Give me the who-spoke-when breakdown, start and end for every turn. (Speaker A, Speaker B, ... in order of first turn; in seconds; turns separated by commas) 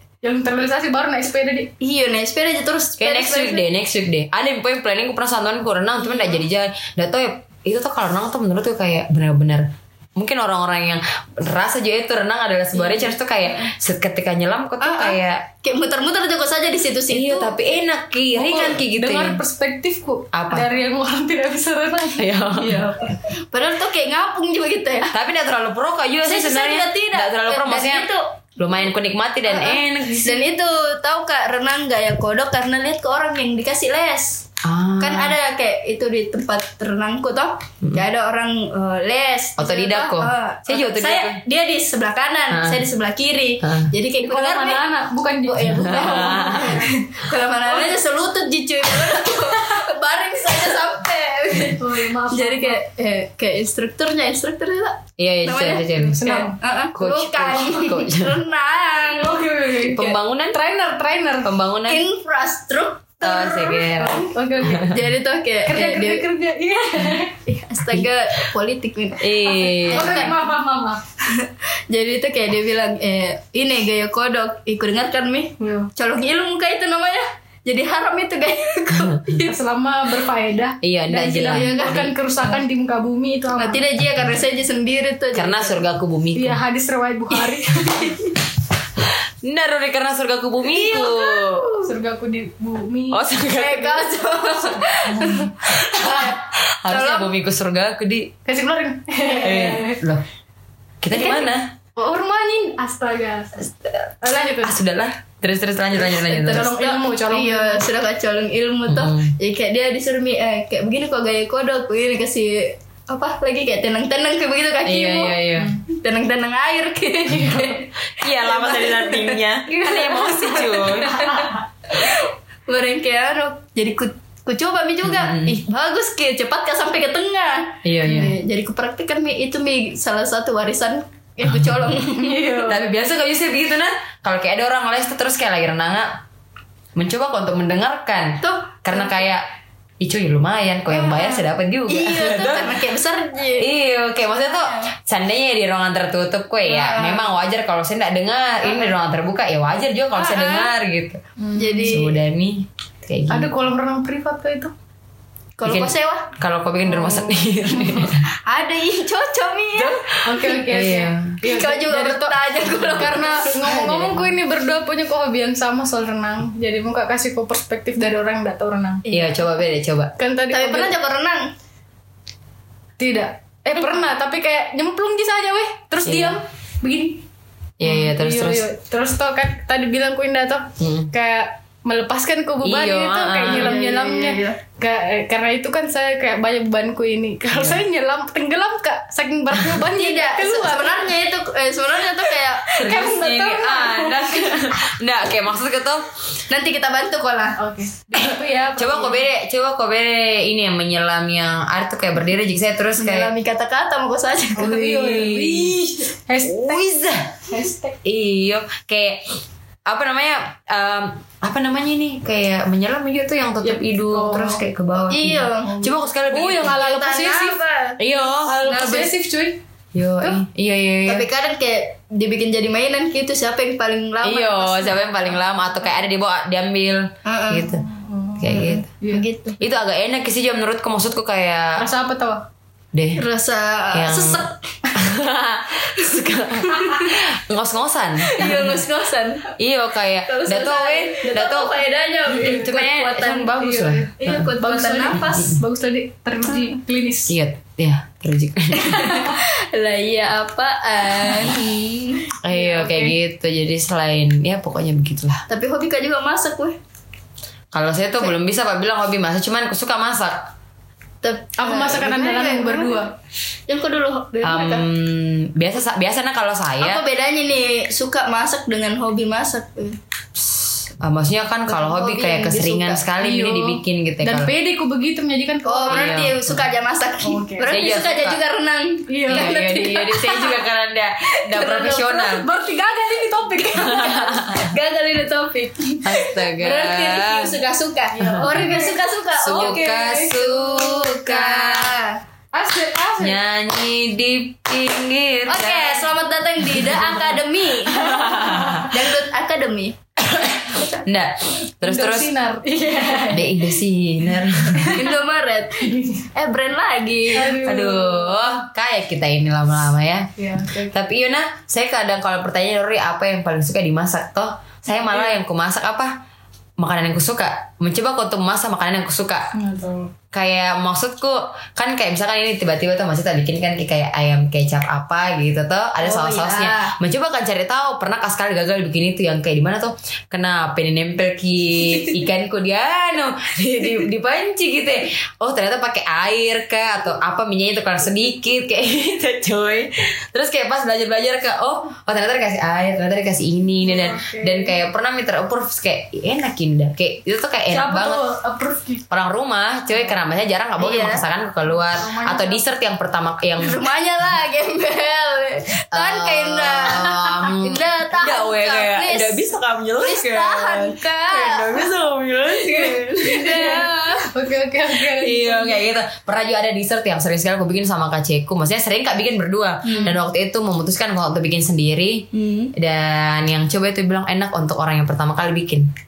Speaker A: 0.2-1.7, Speaker B: 1.8-3.7, Speaker C: 3.0-15.5, Speaker B: 6.0-6.4, Speaker B: 12.7-13.7, Speaker B: 14.8-17.8, Speaker C: 17.1-19.4, Speaker A: 18.4-22.3, Speaker C: 20.3-20.7, Speaker C: 22.2-22.9, Speaker B: 22.6-25.1, Speaker C: 25.1-30.4, Speaker B: 26.2-28.3, Speaker B: 29.5-34.5, Speaker C: 34.6-35.4, Speaker B: 35.0-44.8, Speaker C: 39.6-41.4, Speaker C: 42.5-42.9, Speaker C: 43.6-43.9, Speaker A: 44.2-46.9, Speaker B: 45.5-59.6, Speaker C: 45.6-46.8, Speaker A: 51.8-52.8, Speaker C: 55.2-56.2, Speaker A: 55.9-56.6, Speaker C: 57.0-58.4, Speaker A: 59.1-61.6, Speaker C: 59.8-60.6, Speaker C: 61.4-62.1, Speaker B: 61.9-63.5, Speaker C: 63.2-65.0, Speaker A: 63.3-65.0, Speaker B: 64.8-66.3, Speaker A: 65.7-67.4, Speaker B: 67.5-70.4, Speaker C: 69.2-70.3, Speaker A: 69.9-71.0, Speaker B: 71.3-79.5, Speaker A: 75.6-75.9, Speaker C: 78.9-79.2, Speaker A: 79.3-83.8, Speaker C: 80.8-82.1, Speaker B: 81.1-82.1, Speaker B: 83.5-85.8, Speaker C: 85.3-86.6, Speaker A: 86.3-88.3, Speaker B: 87.4-88.3, Speaker C: 89.4-91.7, Speaker B: 90.7-91.9, Speaker A: 91.8-93.3, Speaker C: 93.1-94.1, Speaker B: 93.5-96.4, Speaker A: 95.1-96.3, Speaker C: 95.7-98.3, Speaker B: 96.9-97.3, Speaker A: 98.5-100.0, Speaker C: 99.3-100.2, Speaker C: 101.0-101.8, Speaker A: 102.0-103.7, Speaker C: 103.6-106.7, Speaker A: 104.2-104.8, Speaker B: 106.0-132.7, Speaker A: 106.0-107.9, Speaker C: 108.9-109.3, Speaker C: 114.8-115.8, Speaker C: 117.3-121.3, Speaker A: 120.5-121.5, Speaker C: 125.0-125.6, Speaker C: 127.8-128.3, Speaker A: 132.2-132.8, Speaker C: 132.6-136.2, Speaker C: 137.0-139.5, Speaker B: 138.4-139.2, Speaker C: 140.0-142.8, Speaker B: 140.9-143.7, Speaker C: 143.6-151.2, Speaker B: 144.4-144.9, Speaker B: 146.6-147.3, Speaker B: 150.2-150.7, Speaker A: 151.4-152.0, Speaker B: 151.6-152.2, Speaker C: 151.9-153.5, Speaker A: 153.3-154.7, Speaker B: 155.6-156.3, Speaker C: 155.6-158.3, Speaker A: 157.0-158.2, Speaker B: 158.4-160.2, Speaker C: 159.8-161.4, Speaker A: 160.2-169.1, Speaker B: 161.4-163.6, Speaker C: 163.5-164.3, Speaker B: 169.1-169.4, Speaker C: 169.1-170.1, Speaker A: 170.2-170.9, Speaker B: 170.5-171.5, Speaker A: 173.0-177.3, Speaker B: 173.8-174.1, Speaker C: 176.1-176.4, Speaker C: 177.8-178.7, Speaker A: 177.8-191.1, Speaker C: 180.8-181.1, Speaker C: 182.6-183.8, Speaker B: 183.4-184.6, Speaker C: 187.5-187.8, Speaker B: 189.9-192.8, Speaker A: 192.6-194.8, Speaker C: 192.7-196.1, Speaker B: 196.5-197.6, Speaker A: 197.6-199.2, Speaker C: 198.1-203.3, Speaker B: 203.0-204.8, Speaker A: 204.6-206.9, Speaker C: 204.6-205.8, Speaker C: 206.4-207.4, Speaker A: 207.5-208.0, Speaker C: 208.1-209.3, Speaker C: 209.9-216.8, Speaker A: 213.6-214.6, Speaker B: 215.0-215.8, Speaker A: 215.7-217.6, Speaker B: 216.7-218.0, Speaker C: 218.0-218.7, Speaker A: 218.3-219.6, Speaker B: 218.7-219.1, Speaker C: 219.9-221.3, Speaker B: 221.1-225.1, Speaker C: 224.2-227.9, Speaker B: 227.2-227.7, Speaker A: 227.8-229.2, Speaker C: 228.4-228.9, Speaker B: 228.4-229.7, Speaker C: 229.6-231.9, Speaker A: 231.8-232.5, Speaker C: 232.9-233.2, Speaker B: 233.2-235.0, Speaker C: 233.9-238.9, Speaker B: 236.7-237.2, Speaker B: 238.2-239.5, Speaker C: 239.6-241.8, Speaker B: 240.3-245.6, Speaker C: 242.3-244.5, Speaker A: 242.3-242.7, Speaker A: 243.5-247.4, Speaker C: 245.3-245.6, Speaker C: 247.3-249.3, Speaker B: 248.7-252.3, Speaker C: 252.4-255.4, Speaker A: 252.5-253.2, Speaker B: 255.5-256.8, Speaker C: 257.7-260.5, Speaker B: 261.2-263.0, Speaker A: 261.6-263.1, Speaker B: 263.7-264.9, Speaker C: 264.4-267.0, Speaker B: 266.8-270.0, Speaker C: 270.4-274.5, Speaker B: 271.7-273.1, Speaker A: 273.2-276.3, Speaker B: 275.6-280.1, Speaker C: 275.9-276.5, Speaker A: 277.2-277.7, Speaker C: 277.7-278.4, Speaker A: 279.1-280.5, Speaker C: 279.3-282.5, Speaker B: 281.5-282.2, Speaker A: 281.7-284.6, Speaker C: 283.8-284.7, Speaker B: 283.9-292.2, Speaker C: 286.0-287.6, Speaker A: 288.1-290.7, Speaker C: 289.4-291.9, Speaker A: 292.5-293.4, Speaker C: 293.2-296.1, Speaker B: 295.5-300.0, Speaker C: 296.6-297.3, Speaker C: 298.1-298.9, Speaker A: 298.1-298.9, Speaker C: 300.3-302.3, Speaker A: 301.8-303.8, Speaker C: 303.3-305.0, Speaker B: 304.9-307.6, Speaker A: 305.8-306.3, Speaker A: 307.3-308.6, Speaker C: 307.6-310.3, Speaker A: 310.4-310.9, Speaker C: 310.9-316.1, Speaker A: 314.9-315.3, Speaker C: 316.8-319.5, Speaker A: 319.6-320.1, Speaker C: 320.3-348.3, Speaker B: 326.0-326.9, Speaker A: 343.8-344.8, Speaker A: 347.7-349.0, Speaker C: 349.1-353.8, Speaker B: 350.8-351.2, Speaker A: 351.8-352.6, Speaker B: 353.6-359.5, Speaker C: 355.9-362.9, Speaker B: 360.0-361.9, Speaker B: 362.5-364.3, Speaker A: 362.9-365.9, Speaker C: 365.1-375.9, Speaker B: 369.8-370.2, Speaker B: 372.3-372.7